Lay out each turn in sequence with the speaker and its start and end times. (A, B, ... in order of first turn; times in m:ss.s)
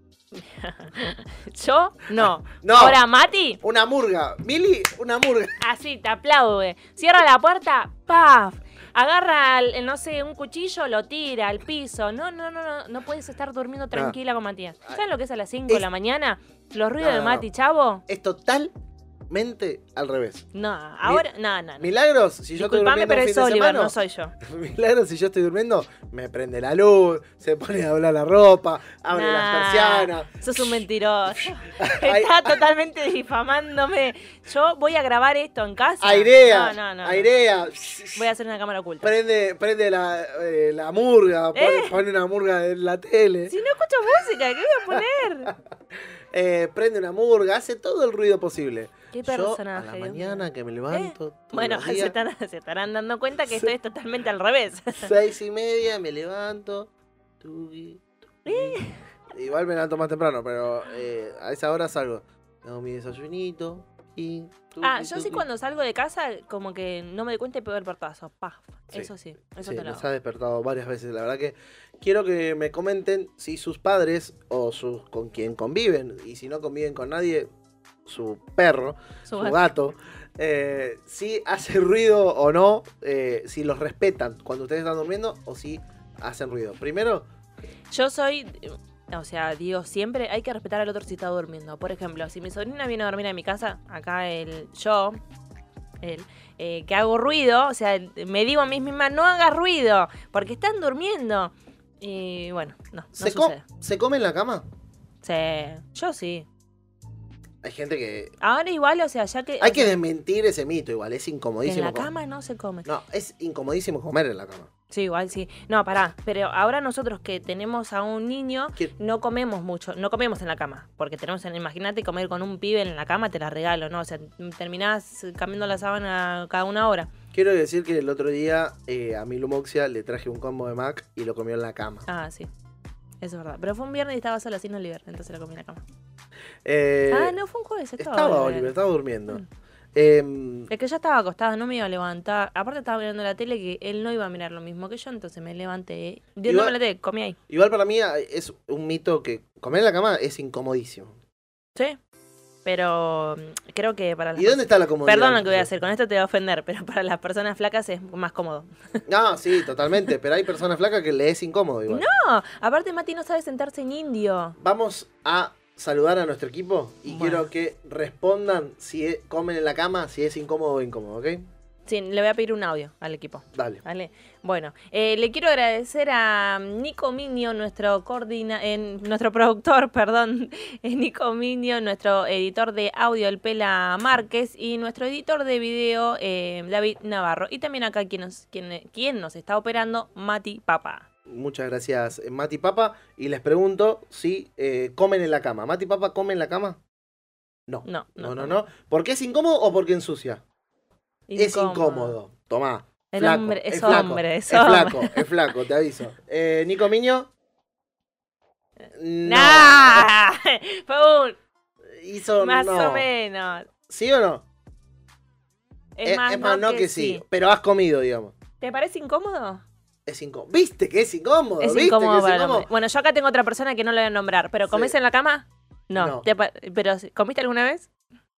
0:00.3-0:03.6 A
0:02.2-0:03.0 B
0:03.6-0:05.6 B
0:05.6-0:18.0 A
0:17.0-0:17.4 B
0:18.1-0:18.7 B
0:19.3-0:20.4 B
0:20.5-0:21.9 A
0:21.8-0:30.7 B
0:22.6-0:24.3 A
0:29.1-0:37.3 A
0:31.6-0:32.6 B
0:36.0-0:38.2 B
0:38.1-0:39.1 A
0:39.0-0:43.6 B
0:41.5-0:42.0 A
0:43.5-0:45.5 A
0:46.3-0:52.1 B
0:49.1-0:55.1 A
0:55.0-0:56.9 B
0:57.4-0:58.8 B
0:58.4-0:59.0 A
0:59.3-1:05.4 B
1:04.8-1:10.0 A
1:09.6-1:17.5 B
1:18.0-1:27.3 B
1:19.2-1:19.6 A
1:27.9-1:35.2 A
1:36.0-1:43.6 A
1:43.2-1:44.6 B
1:45.2-1:46.5 A
1:47.6-1:48.3 B
1:48.4-1:49.9 A
1:49.6-1:52.1 B
1:51.6-1:52.9 A
1:52.8-1:54.7 B
1:54.9-2:07.1 A
2:07.3-2:12.1 B
2:12.1-2:12.5 A
2:13.2-2:15.8 A
2:16.6-2:17.4 B
2:17.1-2:18.7 A
2:18.0-2:19.4 B
2:19.9-2:20.7 B
2:20.7-2:27.4 A
2:26.4-2:26.7 B
2:27.5-2:31.2 B
2:32.6-2:39.0 A
2:34.4-2:35.7 B
2:39.0-2:42.0 B
2:41.9-2:44.6 A
2:44.6-2:51.4 B
2:47.1-2:47.5 A
2:51.8-3:11.1 A
2:53.5-2:53.8 B
3:11.3-3:16.8 B
3:17.7-3:20.4 B
3:17.8-3:18.6 A
3:21.3-3:22.2 A
3:21.4-3:27.3 B
3:23.1-3:25.3 A
3:28.9-3:30.1 B
3:29.2-3:31.4 A
3:31.9-3:33.1 B
3:32.4-3:33.7 A
3:33.9-3:34.4 B
3:36.0-3:37.2 A
3:36.0-3:38.3 B
3:38.6-3:39.6 A
3:40.0-3:42.7 B
3:41.6-3:47.9 A
3:46.0-3:46.2 B